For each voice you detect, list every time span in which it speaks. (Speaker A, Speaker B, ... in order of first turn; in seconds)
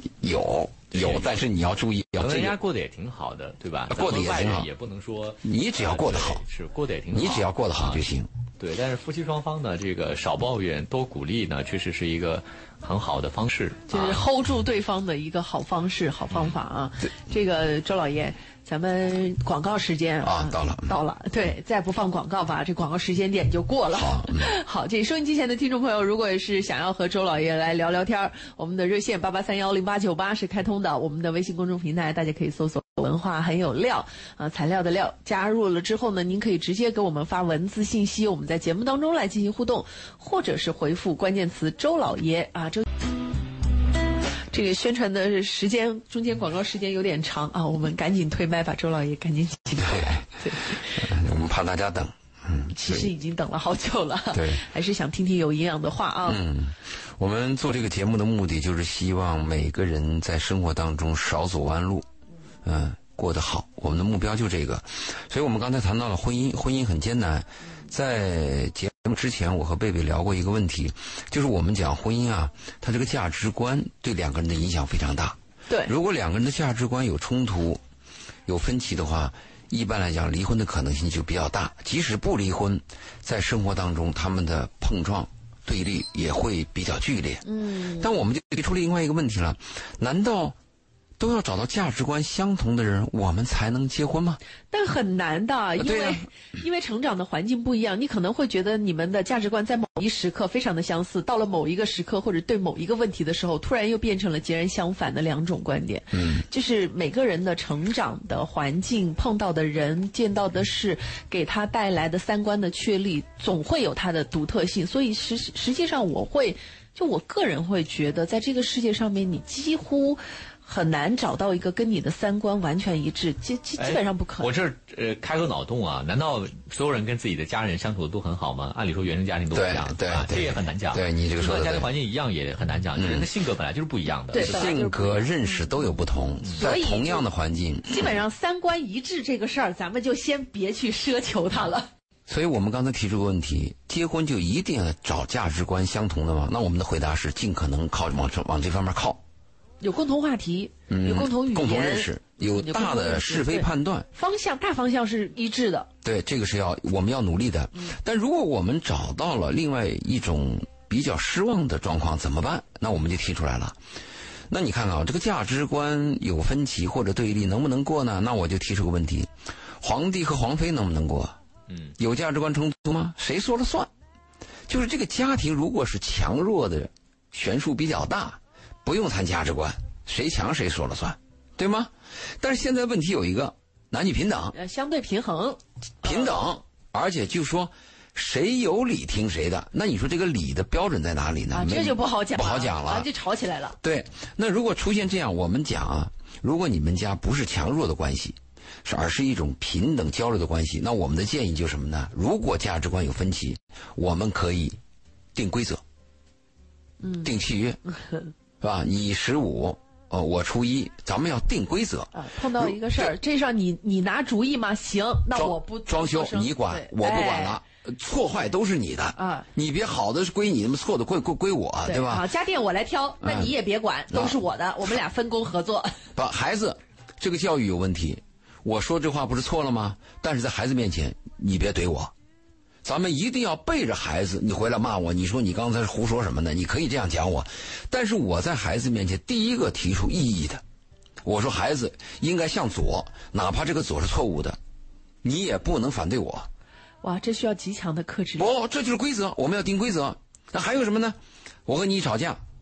Speaker A: 0.2-2.6, 3.9-4.7, 5.4-6.4, 7.1-8.3, 20.2-20.9, 23.9-24.5, 49.9-50.2, 50.8-53.1, 54.3-54.6, 56.2-62.1, 62.6-77.8, 78.5-90.5, 91.2-94.4, 95.8-96.2, 106.1-106.4, 129.5-131.9, 132.9-133.3, 134.3-138.1, 142.3-149.2, 150.9-154.1, 156.0-163.8, 164.5-171.4, 172.0-173.9, 174.7-184.5, 186.0-193.1, 193.8-204.8, 205.3-205.8, 207.2-207.8, 208.6-213.1, 215.3-222.3, 223.2-223.5, 224.1-224.4, 226.2-232.1, 232.8-240.6, 241.2-244.6, 245.2-246.5, 248.4-252.4
Speaker B: 0.9-1.3, 2.2-8.0, 8.6-14.2, 123.8-134.8, 171.7-171.9
Speaker C: 13.9-43.0, 44.5-51.1, 52.7-56.4, 87.5-88.1, 94.7-124.5, 134.3-135.9, 136.5-137.3, 137.9-141.9, 149.8-155.9, 184.5-186.4, 191.5-193.8, 207.0-207.3, 207.9-208.2, 212.1-217.6, 219.2-219.5, 221.8-226.0, 247.0-248.5